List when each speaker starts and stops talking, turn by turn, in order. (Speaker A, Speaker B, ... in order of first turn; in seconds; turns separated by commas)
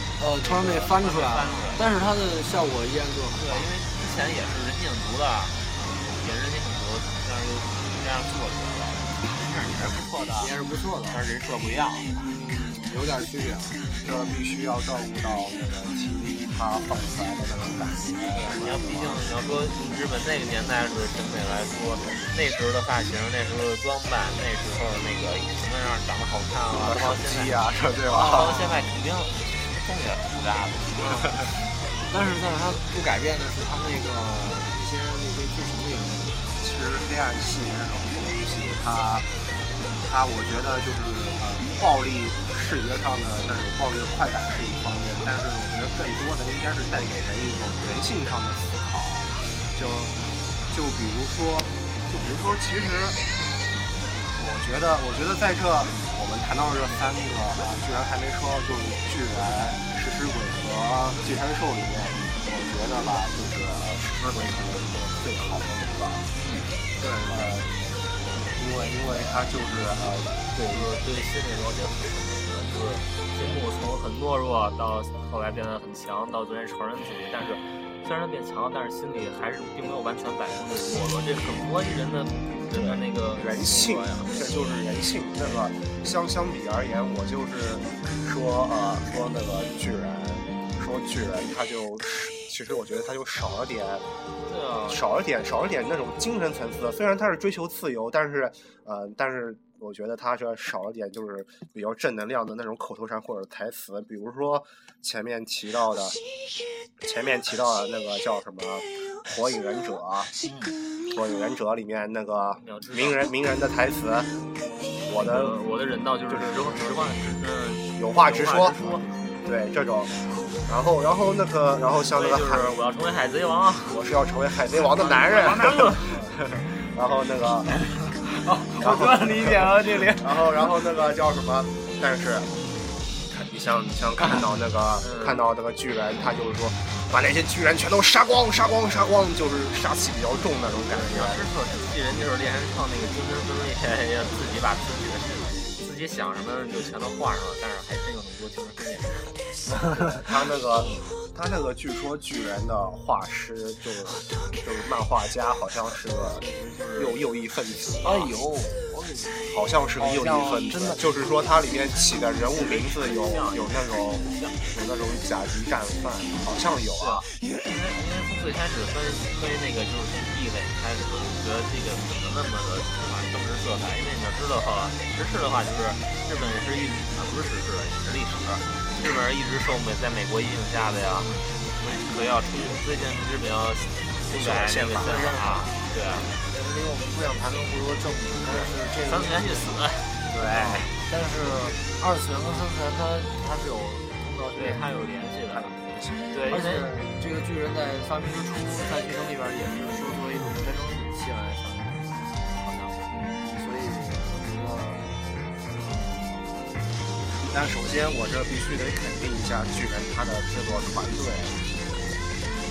Speaker A: 0.2-3.7, Speaker B: 0.4-1.8, Speaker B: 3.3-10.5, Speaker A: 10.4-11.2, Speaker B: 11.1-12.3, Speaker A: 12.2-13.9, Speaker C: 14.0-19.2, Speaker B: 18.3-31.4, Speaker C: 26.7-28.7, Speaker A: 28.1-28.7, Speaker A: 31.0-31.5, Speaker A: 32.1-36.4, Speaker C: 36.6-39.3, Speaker C: 40.0-50.1, Speaker C: 50.7-53.2, Speaker C: 54.4-66.2, Speaker A: 67.0-67.6, Speaker C: 67.3-67.7, Speaker C: 68.3-70.9, Speaker B: 70.7-84.5, Speaker C: 82.7-94.0, Speaker B: 94.5-95.1, Speaker C: 94.9-106.2, Speaker C: 107.0-110.3, Speaker B: 110.5-110.7, Speaker C: 111.1-114.3, Speaker B: 112.6-113.3, Speaker C: 115.1-115.6, Speaker B: 115.1-119.3, Speaker C: 116.3-117.1, Speaker C: 118.0-122.8, Speaker B: 122.1-124.0, Speaker C: 123.9-127.7, Speaker B: 124.7-126.3, Speaker A: 128.2-130.5, Speaker C: 128.8-132.5, Speaker C: 133.3-141.5, Speaker B: 135.0-135.4, Speaker B: 140.9-149.4, Speaker C: 149.8-158.3, Speaker B: 150.8-151.1, Speaker B: 156.4-157.2, Speaker A: 158.0-161.0, Speaker C: 159.5-167.3, Speaker B: 162.5-164.6, Speaker B: 167.0-186.3, Speaker C: 184.3-185.3, Speaker A: 185.0-189.7, Speaker B: 188.5-190.2, Speaker C: 190.3-190.9, Speaker A: 190.4-194.8, Speaker B: 194.5-195.8, Speaker C: 195.5-196.2, Speaker A: 196.3-205.1, Speaker B: 196.3-196.9, Speaker A: 205.7-206.4, Speaker C: 207.3-212.1